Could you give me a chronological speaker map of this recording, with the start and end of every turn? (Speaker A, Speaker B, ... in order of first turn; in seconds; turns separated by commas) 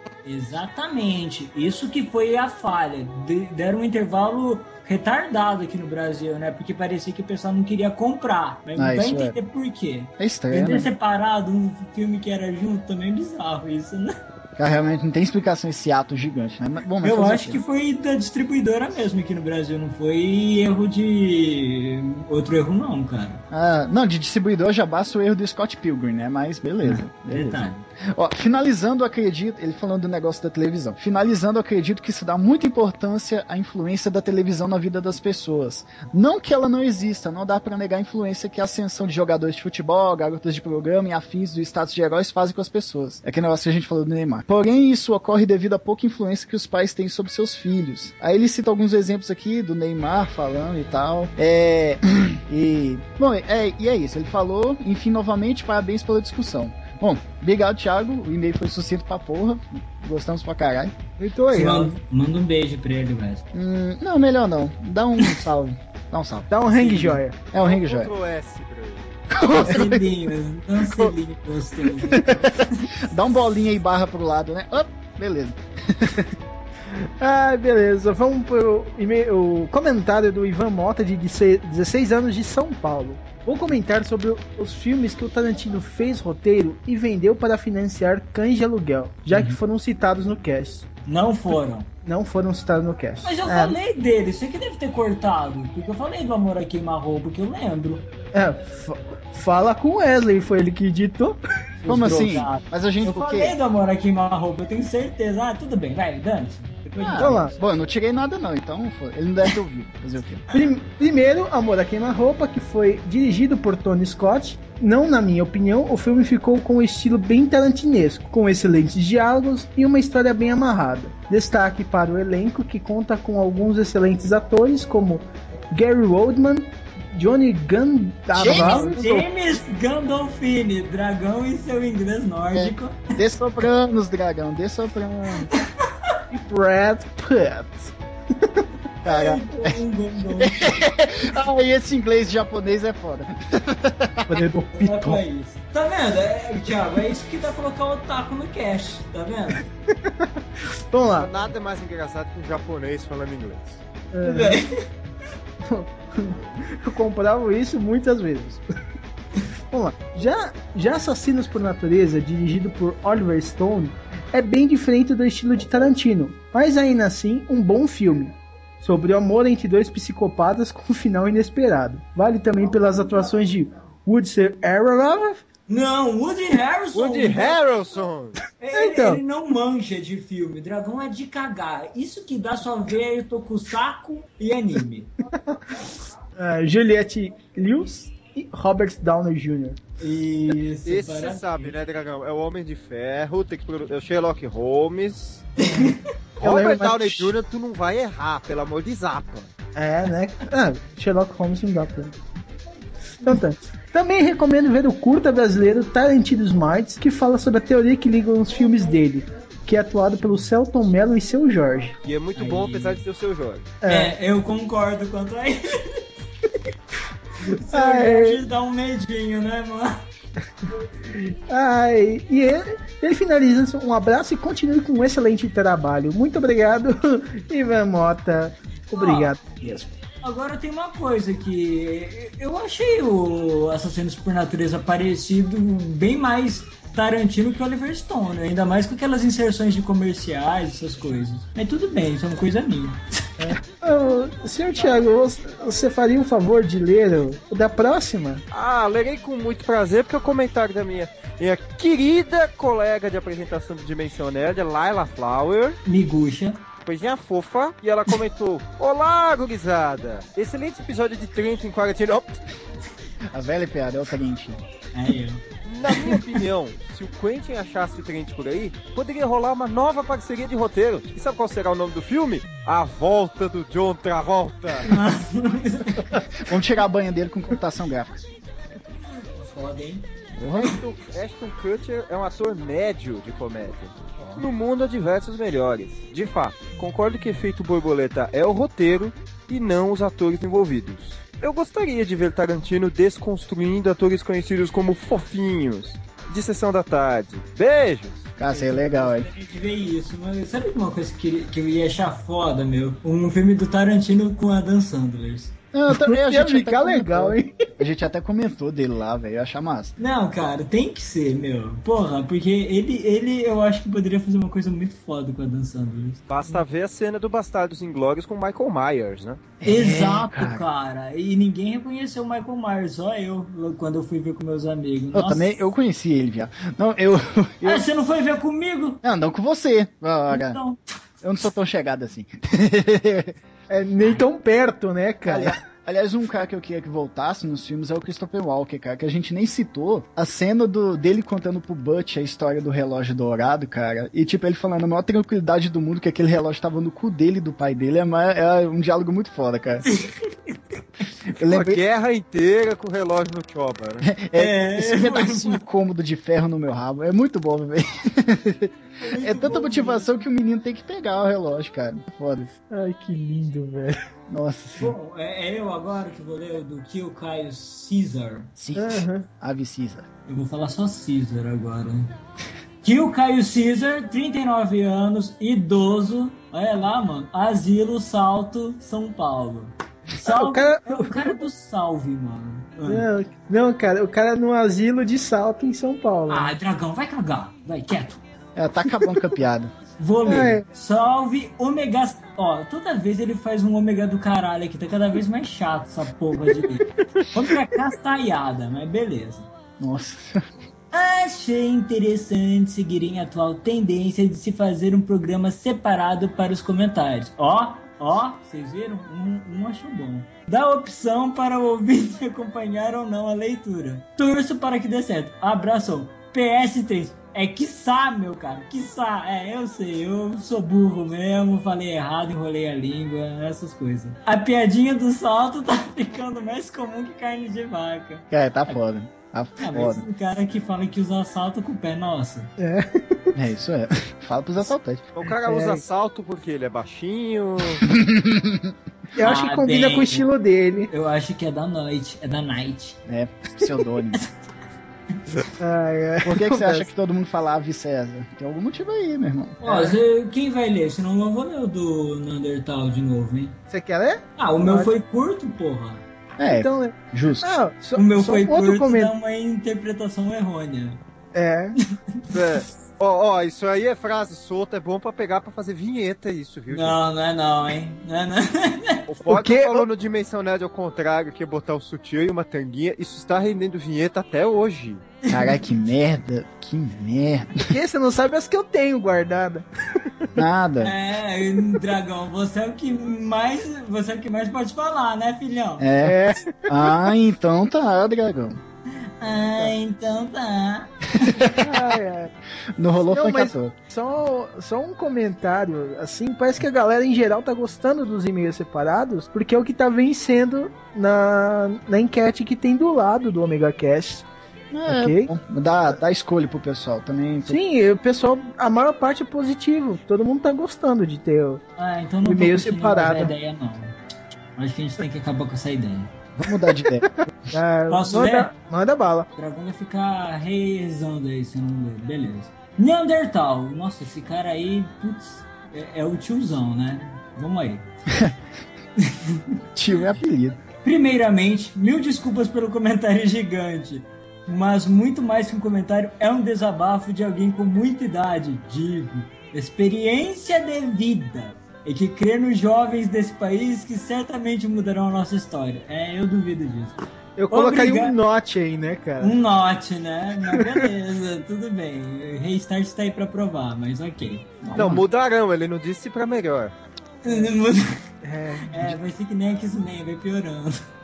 Speaker A: 0.2-14.2, Speaker B: 8.8-9.3, Speaker B: 10.2-10.9, Speaker B: 14.6-17.6, Speaker A: 17.0-23.4, Speaker B: 23.5-60.9, Speaker A: 26.8-27.8, Speaker C: 61.2-61.9, Speaker A: 61.5-63.4, Speaker B: 63.5-66.5, Speaker C: 66.5-67.4, Speaker A: 66.8-67.2, Speaker D: 67.4-69.1, Speaker B: 67.5-68.1, Speaker B: 69.3-70.1, Speaker A: 69.6-72.8, Speaker B: 70.8-71.1, Speaker B: 72.0-76.3, Speaker C: 77.2-90.9, Speaker A: 89.3-89.6, Speaker A: 91.0-91.9, Speaker C: 92.0-93.8, Speaker A: 93.2-98.0, Speaker C: 98.3-101.4, Speaker A: 101.8-107.5, Speaker B: 101.8-103.6, Speaker B: 107.0-110.6, Speaker C: 107.2-107.5, Speaker C: 110.5-129.3, Speaker B: 128.3-129.0, Speaker A: 128.5-133.1, Speaker B: 132.5-135.5, Speaker A: 135.5-136.2, Speaker C: 136.3-138.6, Speaker B: 139.0-139.8, Speaker A: 139.0-140.7, Speaker B: 140.3-144.4, Speaker C: 144.3-145.2, Speaker A: 144.7-149.7, Speaker C: 149.9-150.3, Speaker C: 150.9-151.3, Speaker D: 151.0-153.8, Speaker C: 154.1-154.6, Speaker A: 154.2-154.7, Speaker C: 155.6-158.6, Speaker C: 159.7-175.4, Speaker A: 175.7-177.6, Speaker D: 176.9-178.4, Speaker A: 178.6-185.1, Speaker C: 178.7-179.2, Speaker C: 186.3-189.8, Speaker A: 190.0-191.8, Speaker D: 190.8-195.5, Speaker A: 195.6-196.0, Speaker C: 195.7-197.3, Speaker D: 196.4-199.5, Speaker C: 199.7-202.1, Speaker C: 203.2-212.0, Speaker D: 212.0-213.7, Speaker A: 212.3-213.0, Speaker C: 213.8-214.1, Speaker A: 213.8-216.0, Speaker A: 217.4-220.0, Speaker C: 217.5-218.4, Speaker C: 221.1-229.9, Speaker A: 228.9-229.3, Speaker A: 230.2-243.3, Speaker C: 243.4-248.4, Speaker D: 248.5-255.8, Speaker A: 255.8-256.6, Speaker D: 256.8-262.4, Speaker B: 263.3-264.6, Speaker A: 264.9-265.4, Speaker D: 265.6-274.9, Speaker A: 274.8-276.1, Speaker B: 276.3-278.2, Speaker A: 279.4-280.1, Speaker B: 280.3-280.8, Speaker D: 280.5-298.3, Speaker B: 284.2-284.4, Speaker B: 298.4-299.3, Speaker A: 298.5-305.5, Speaker B: 305.7-309.9, Speaker C: 305.9-307.5, Speaker A: 310.0-316.2, Speaker D: 316.3-319.4, Speaker B: 319.6-320.6, Speaker A: 319.6-325.5, Speaker B: 325.1-327.8, Speaker A: 327.6-329.0, Speaker B: 329.0-330.6, Speaker A: 330.3-330.8, Speaker B: 331.2-333.4, Speaker C: 333.7-335.6, Speaker A: 334.0-334.2, Speaker B: 335.2-349.9, Speaker A: 349.9-350.5, Speaker B: 351.4-351.8, Speaker D: 351.4-354.1, Speaker B: 354.0-362.5, Speaker A: 354.4-355.6, Speaker A: 359.0-360.1, Speaker C: 362.7-364.0, Speaker B: 364.3-364.9, Speaker A: 364.8-368.5, Speaker B: 368.6-370.1, Speaker C: 368.7-369.2, Speaker A: 370.3-372.1, Speaker A: 372.8-383.1, Speaker C: 380.2-381.4, Speaker C: 382.8-386.5, Speaker A: 386.3-388.2, Speaker B: 388.6-389.7, Speaker A: 390.0-399.5, Speaker C: 390.2-390.6, Speaker B: 399.8-400.4, Speaker A: 400.9-428.8, Speaker B: 428.3-430.0, Speaker A: 429.6-432.5, Speaker C: 432.6-433.3, Speaker B: 433.3-435.0, Speaker D: 435.1-437.9, Speaker C: 435.4-435.8, Speaker B: 437.8-438.7, Speaker C: 439.1-440.9, Speaker A: 439.2-440.3, Speaker A: 440.9-443.0, Speaker B: 443.1-444.2, Speaker C: 445.6-446.9, Speaker B: 446.2-449.6, Speaker A: 449.6-453.6, Speaker C: 449.6-449.9, Speaker C: 453.7-454.9, Speaker A: 454.4-456.0, Speaker B: 456.4-457.5, Speaker C: 456.5-459.1, Speaker A: 457.9-461.0, Speaker C: 461.3-461.8, Speaker D: 462.3-467.0, Speaker A: 466.7-469.0, Speaker D: 469.1-475.1, Speaker C: 469.3-469.9, Speaker B: 475.3-477.7, Speaker C: 477.7-479.6, Speaker B: 480.4-480.9, Speaker A: 480.8-485.9, Speaker B: 485.8-488.6, Speaker C: 486.0-486.9, Speaker A: 489.2-490.9, Speaker B: 491.2-491.9, Speaker C: 491.5-492.3, Speaker B: 492.8-493.7, Speaker C: 493.0-504.3, Speaker B: 504.7-507.6, Speaker C: 504.9-505.3, Speaker C: 507.4-511.6, Speaker A: 511.8-514.0, Speaker C: 512.2-513.3, Speaker A: 514.6-516.1, Speaker B: 516.4-517.1, Speaker C: 517.5-519.3, Speaker A: 517.9-518.5, Speaker A: 519.3-527.9, Speaker A: 529.0-529.4, Speaker B: 529.7-530.6, Speaker A: 530.8-547.0, Speaker C: 547.4-549.4, Speaker A: 547.5-548.2, Speaker A: 549.2-554.5, Speaker C: 550.4-550.9, Speaker B: 554.6-555.0, Speaker D: 554.7-556.7, Speaker A: 557.2-558.0, Speaker C: 558.2-558.9, Speaker A: 558.7-560.8